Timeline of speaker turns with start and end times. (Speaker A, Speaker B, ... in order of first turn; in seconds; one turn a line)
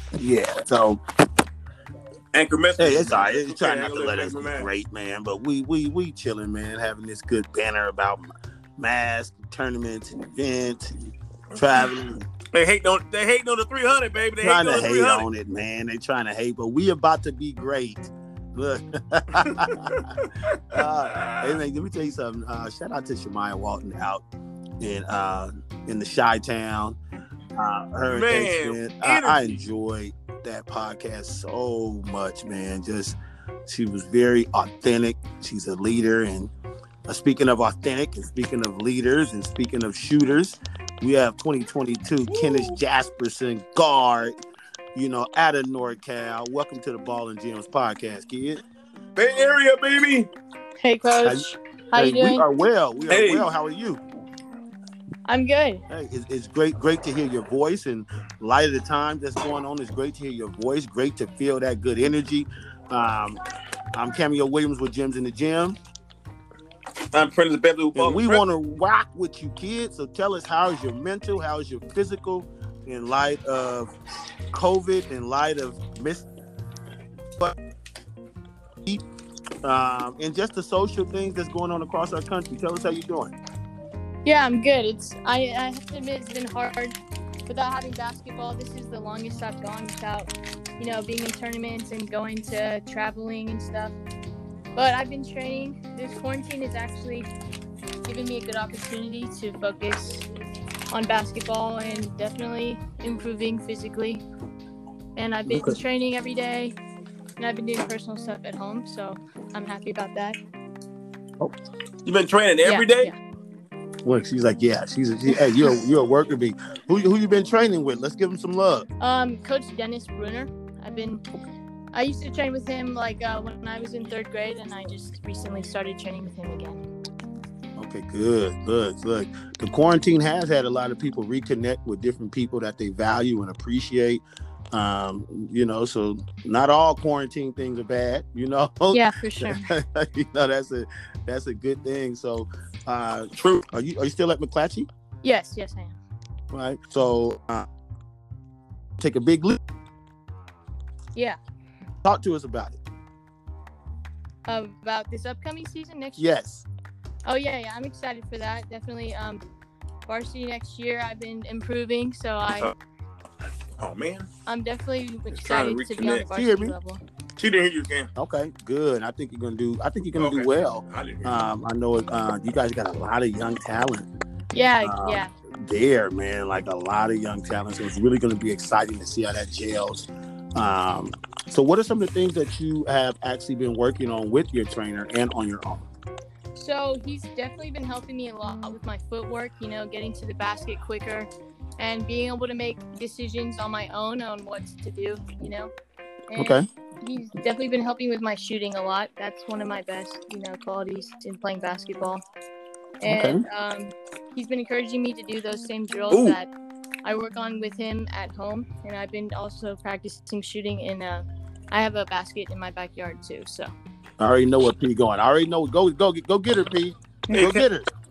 Speaker A: 0.2-1.0
Speaker B: 2.3-4.7
Speaker A: 2.8-12.3
Speaker B: 12.5-15.3
Speaker A: 14.4-19.8
Speaker B: 19.4-21.6
Speaker A: 20.7-24.2
Speaker A: 24.8-27.0
Speaker A: 27.6-36.5
Speaker B: 28.1-29.6
Speaker A: 37.1-44.3
Speaker B: 42.3-42.8
Speaker A: 45.0-48.6
Speaker B: 49.2-50.3
Speaker C: 50.8-52.5
Speaker A: 51.2-54.0
Speaker B: 53.1-53.5
Speaker C: 55.3-55.8
Speaker A: 55.9-63.4
Speaker A: 63.9-65.8
Speaker B: 67.1-68.4
Speaker A: 68.0-73.9
Speaker A: 74.5-76.3
Speaker A: 79.6-83.3
Speaker C: 84.2-87.0
Speaker C: 87.5-94.0
Speaker C: 94.8-97.3
Speaker C: 98.1-100.3
Speaker C: 100.9-104.2
Speaker C: 105.2-106.8
Speaker A: 105.5-105.8
Speaker C: 107.4-110.4
Speaker B: 112.0-113.1
Speaker C: 112.6-113.2
Speaker A: 114.0-118.9
Speaker C: 119.0-121.2
Speaker C: 121.9-126.8
Speaker A: 127.8-144.9
Speaker C: 138.9-139.7
Speaker C: 145.2-146.0
Speaker A: 146.5-147.7
Speaker A: 149.0-149.6
Speaker A: 152.0-152.8
Speaker C: 154.5-156.3
Speaker A: 156.2-156.7
Speaker C: 157.2-159.4
Speaker C: 160.1-162.7
Speaker B: 163.8-164.3
Speaker C: 164.5-167.0
Speaker B: 165.3-166.3
Speaker A: 166.3-166.8
Speaker B: 167.4-168.1
Speaker A: 168.2-174.1
Speaker B: 170.2-171.5
Speaker C: 174.5-175.3
Speaker A: 174.8-185.9
Speaker C: 186.6-195.7
Speaker C: 196.3-202.2
Speaker A: 196.4-196.7
Speaker C: 203.0-206.5
Speaker A: 203.0-203.4
Speaker B: 206.1-206.4
Speaker C: 207.0-213.7
Speaker A: 214.2-217.9
Speaker B: 217.3-217.7